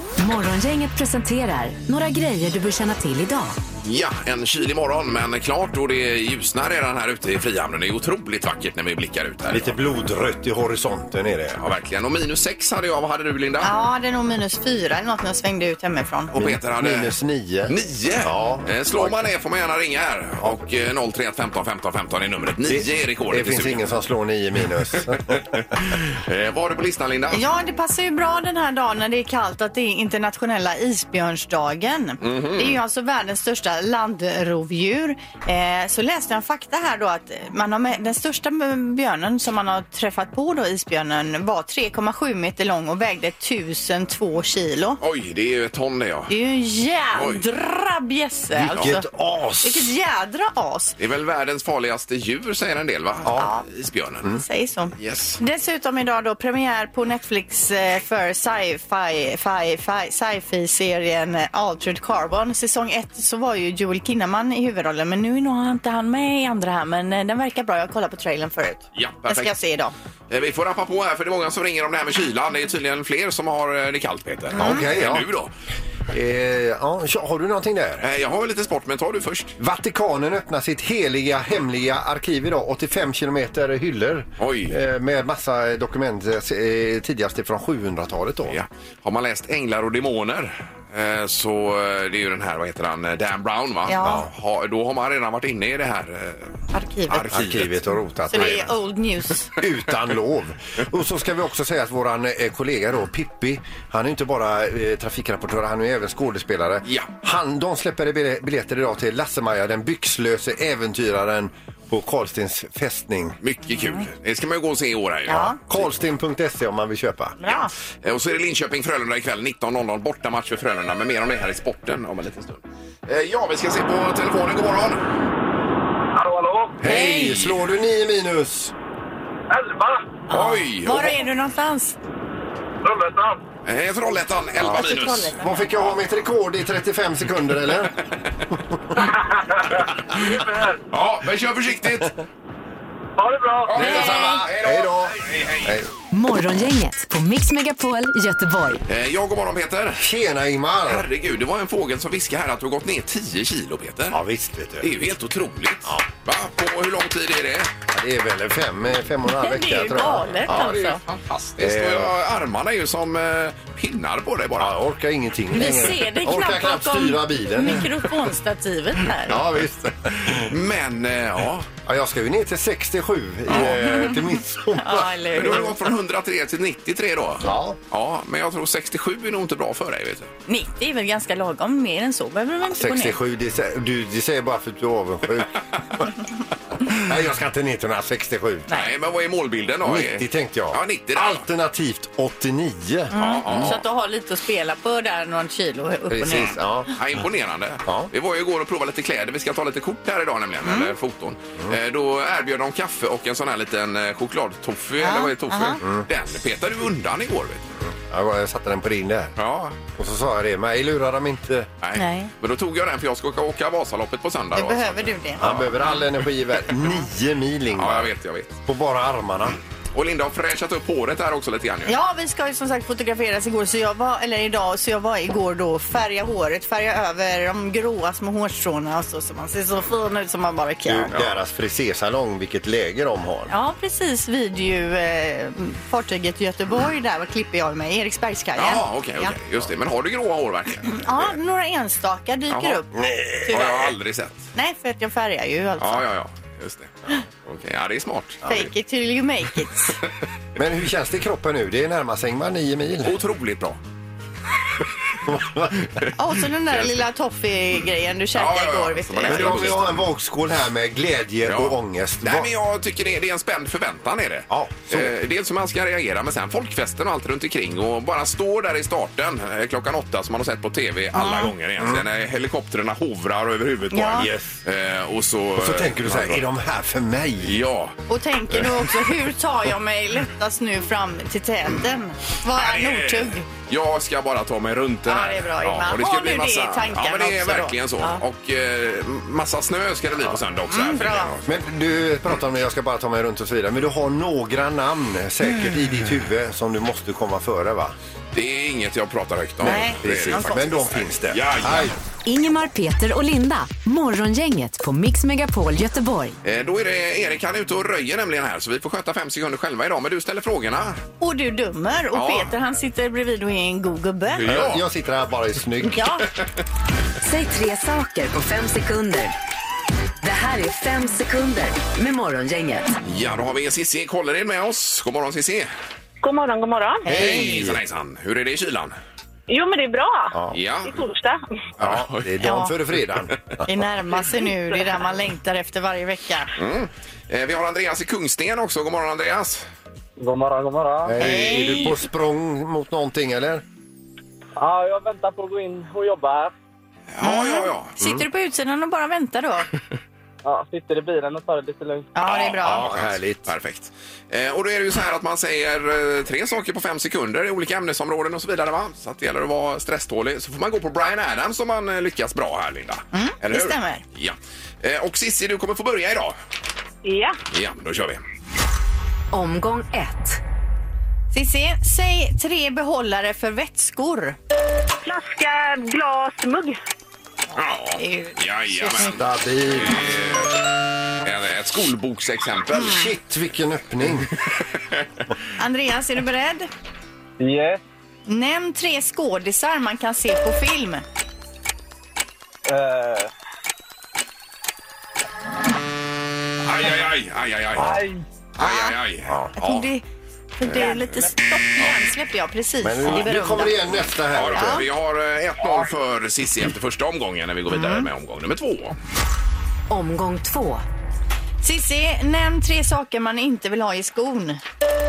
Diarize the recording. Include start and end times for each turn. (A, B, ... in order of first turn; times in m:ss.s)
0:00.2-0:03.6 A
0:03.8-0:09.8 B
0:09.5-0:11.6 C
0:11.6-0:13.7 B
0:13.6-0:16.3 D
0:16.3-0:17.1 B
0:16.4-0:19.3 C
0:17.7-0:23.9 B
0:22.6-0:25.6 C
0:25.6-0:27.4 B
0:27.3-0:45.0 D
0:32.2-0:32.8 B
0:45.0-0:46.3 B
0:46.3-0:49.1 D
0:47.2-0:47.4 B
0:48.5-0:49.9 C
0:49.6-0:51.0 D
0:51.0-0:54.3 B
0:53.2-0:53.5 C
0:53.4-0:53.6 D
0:54.4-1:09.9 D
0:55.0-0:55.4 B
1:09.0-1:09.5 B
1:10.3-1:15.5 B
1:14.5-1:14.9 D
1:14.6-1:15.3 C
1:16.1-1:18.1 C
1:18.0-1:19.6 B
1:19.6-1:28.6 C
1:24.4-1:24.8 B
1:28.5-1:37.8 B
1:33.9-1:34.2 D
1:34.0-1:34.3 C
1:36.7-1:37.3 D
1:37.3-1:38.7 C
1:38.3-1:39.5 D
1:39.6-1:53.4 C
1:46.8-1:47.1 B
1:53.4-1:55.8 B
1:55.3-1:55.6 D
1:55.7-1:57.4 C
1:57.4-1:57.7 D
1:58.0-2:05.0 B
2:06.2-2:06.7 E
2:06.8-2:08.7 C
2:06.8-2:07.5 D
2:09.5-2:10.0 E
2:10.3-2:12.0 D
2:10.3-2:11.2 B
2:13.6-2:15.4 B
2:14.6-2:19.0 C
2:14.6-2:15.4 D
2:20.9-2:22.2 B
2:23.2-2:23.6 E
2:23.7-2:25.8 B
2:23.7-2:25.9 C
2:23.8-2:24.4 D
2:26.1-2:28.8 A
2:28.9-2:30.1 B
2:30.0-2:31.1 C
2:30.8-2:34.2 B
2:34.1-2:34.9 C
2:34.8-2:37.7 B
2:37.9-2:40.8 C
2:39.4-2:41.0 D
2:40.4-2:44.8 B
2:41.6-2:42.1 C
2:44.6-2:47.9 C
2:45.5-2:49.4 D
2:49.3-2:50.5 C
2:50.2-2:51.7 B
2:51.9-2:55.2 C
2:53.5-2:55.8 D
2:55.3-3:00.3 B
2:57.4-2:57.8 C
3:00.5-3:03.2 D
3:02.7-3:06.1 C
3:06.8-3:08.7 C
3:08.7-3:11.4 B
3:09.8-3:13.8 C
3:13.1-3:16.5 D
3:13.2-3:13.8 B
3:16.1-3:16.9 C
3:16.4-3:27.7 B
3:17.8-3:18.1 C
3:20.6-3:20.9 D
3:25.0-3:25.8 D
3:25.8-3:26.1 C
3:27.8-3:29.3 C
3:29.4-3:29.8 B
3:30.0-3:31.7 C
3:31.8-3:35.7 B
3:32.0-3:32.3 D
3:34.5-3:36.0 D
3:35.4-3:38.1 C
3:37.7-3:38.6 B
3:38.7-3:39.6 C
3:39.9-3:42.0 B
3:41.9-3:51.1 D
3:50.9-3:53.5 C
3:51.1-3:51.3 B
3:53.5-3:59.4 D
3:58.6-4:01.4 B
4:00.9-4:03.9 D
4:02.5-4:02.8 B
4:02.9-4:03.6 C
4:03.5-4:04.5 B
4:04.5-4:06.1 D
4:05.8-4:08.4 B
4:08.5-4:10.0 D
4:10.6-4:13.2 C
4:13.0-4:13.8 B
4:15.2-4:16.0 C
4:16.1-4:19.8 D
4:18.3-4:20.0 B
4:19.3-4:22.5 C
4:21.4-4:36.5 B
4:24.5-4:25.1 C
4:31.2-4:31.5 D
4:33.9-4:34.3 D
4:34.2-4:34.6 C
4:35.6-4:37.6 C
4:37.4-4:38.0 B
4:38.1-4:43.5 D
4:42.5-4:51.6 B
4:45.1-4:48.2 D
4:50.7-4:51.3 D
4:51.5-4:58.0 C
4:58.3-5:02.0 B
4:59.6-5:00.7 D
4:59.7-5:02.0 C
5:02.2-5:06.4 A
5:06.4-5:11.0 B
5:11.2-5:14.5 D
5:12.1-5:12.5 B
5:14.3-5:14.9 B
5:14.5-5:16.0 C
5:15.9-5:16.3 D
5:17.2-5:19.4 A
5:20.2-5:22.9 A
5:23.0-5:25.7 B
5:26.2-5:27.1 F
5:27.1-5:27.8 C
5:27.1-5:29.0 B
5:29.5-5:31.4 F
5:30.3-5:30.6 C
5:30.5-5:30.9 B
5:31.8-5:32.3 B
5:31.8-5:33.6 C
5:32.4-5:32.8 D
5:33.6-5:36.5 D
5:36.6-5:39.7 B
5:40.2-5:41.2 E
5:41.0-5:43.6 C
5:41.2-5:42.0 B
5:41.2-5:41.9 D
5:44.6-5:46.5 E
5:47.1-5:47.9 B
5:47.2-5:49.7 D
5:50.4-5:52.1 E
5:52.2-5:52.9 D
5:52.2-6:06.4 B
5:52.6-5:53.5 C
6:03.1-6:04.0 D
6:07.0-6:07.4 F
6:07.5-6:08.2 B
6:09.3-6:10.4 A
6:11.3-6:14.4 D
6:15.0-6:16.8 F
6:17.6-6:23.0 B
6:18.0-6:19.2 D
6:19.0-6:20.0 C
6:22.7-6:24.3 C
6:25.6-6:26.7 D
6:27.4-6:27.8 E
6:28.3-6:31.0 D
6:32.6-6:33.3 E
6:36.6-6:38.0 B
6:37.8-6:38.2 E
6:38.6-6:39.9 B
6:38.6-6:39.0 D
6:39.6-6:40.0 D
6:40.6-6:43.9 D
6:40.6-6:41.1 B
6:42.8-6:44.8 C
6:44.3-6:49.0 B
6:44.6-6:44.8 D
6:49.9-6:50.8 A
6:51.6-6:54.6 D